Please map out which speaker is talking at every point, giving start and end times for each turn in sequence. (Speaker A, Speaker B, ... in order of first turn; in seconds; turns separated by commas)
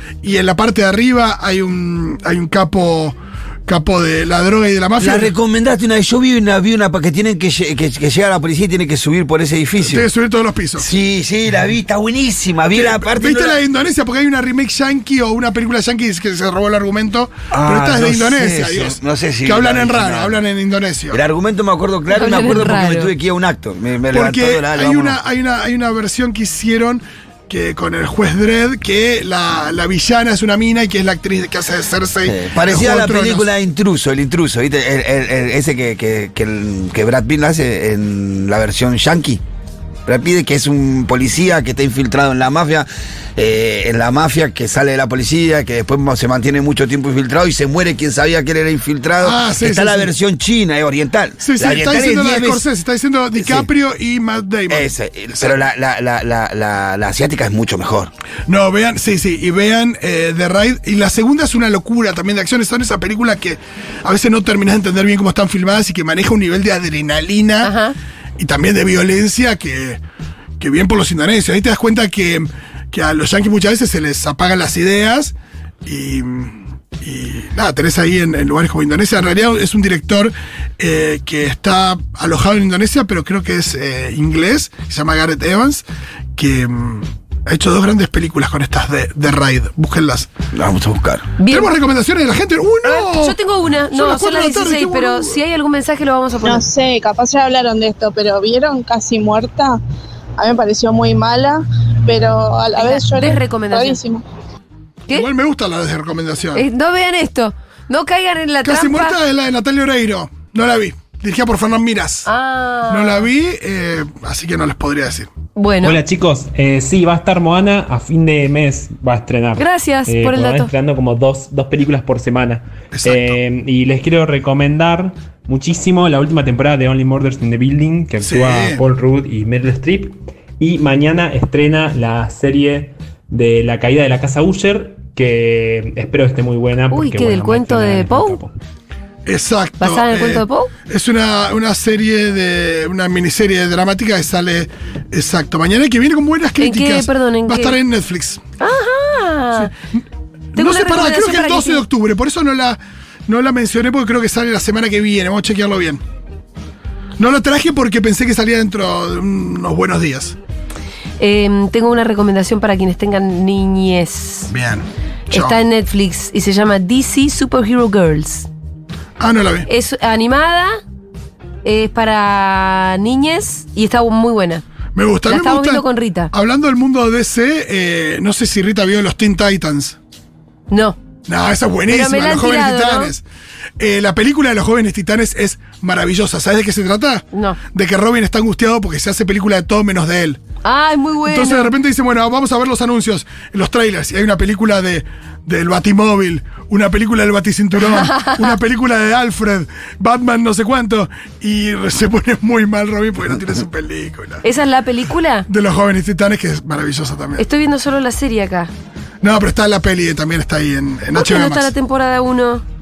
Speaker A: 0.2-5.3, Speaker B: 5.0-10.1, Speaker A: 9.8-10.9, Speaker B: 10.8-13.6, Speaker A: 12.7-21.2, Speaker B: 17.5-20.4, Speaker B: 21.1-25.2, Speaker C: 22.1-23.1, Speaker A: 24.1-33.5, Speaker B: 32.2-39.4, Speaker B: 40.1-52.6, Speaker A: 49.2-50.1, Speaker A: 51.4-55.6, Speaker B: 53.4-53.7, Speaker B: 54.7-58.1, Speaker A: 58.5-67.7, Speaker C: 67.6-68.0, Speaker A: 68.4-70.0, Speaker A: 70.6-85.8, Speaker A: 86.4-90.3, Speaker B: 90.5-91.3, Speaker C: 91.4-91.7, Speaker A: 91.5-93.4, Speaker C: 92.8-96.7, Speaker A: 93.9-95.4, Speaker D: 96.4-99.8, Speaker D: 100.4-104.2, Speaker C: 102.8-104.0, Speaker A: 105.1-106.7, Speaker C: 106.5-109.2, Speaker A: 108.6-112.3, Speaker C: 112.3-113.3, Speaker A: 112.9-115.3, Speaker C: 115.6-116.0, Speaker E: 115.8-138.5, Speaker C: 119.6-120.7, Speaker A: 122.9-123.4, Speaker A: 128.2-128.8, Speaker C: 136.9-138.4, Speaker A: 139.3-148.4, Speaker C: 139.8-140.7, Speaker C: 146.6-147.8, Speaker C: 148.6-149.7, Speaker A: 150.6-156.0, Speaker C: 150.6-151.8, Speaker A: 157.2-160.4, Speaker C: 161.2-164.5, Speaker A: 164.5-165.6, Speaker C: 165.3-168.5, Speaker A: 169.2-169.7, Speaker C: 169.7-170.7, Speaker C: 171.6-174.6, Speaker A: 174.9-180.0, Speaker C: 175.3-176.3, Speaker C: 180.7-181.0, Speaker A: 181.3-183.2, Speaker C: 181.9-183.1, Speaker A: 183.8-190.4, Speaker C: 187.3-187.6, Speaker C: 190.6-191.7, Speaker A: 191.2-204.4, Speaker C: 197.8-198.6, Speaker C: 204.4-205.5, Speaker A: 205.5-207.5, Speaker C: 207.4-208.7, Speaker A: 209.2-211.7, Speaker C: 211.1-212.6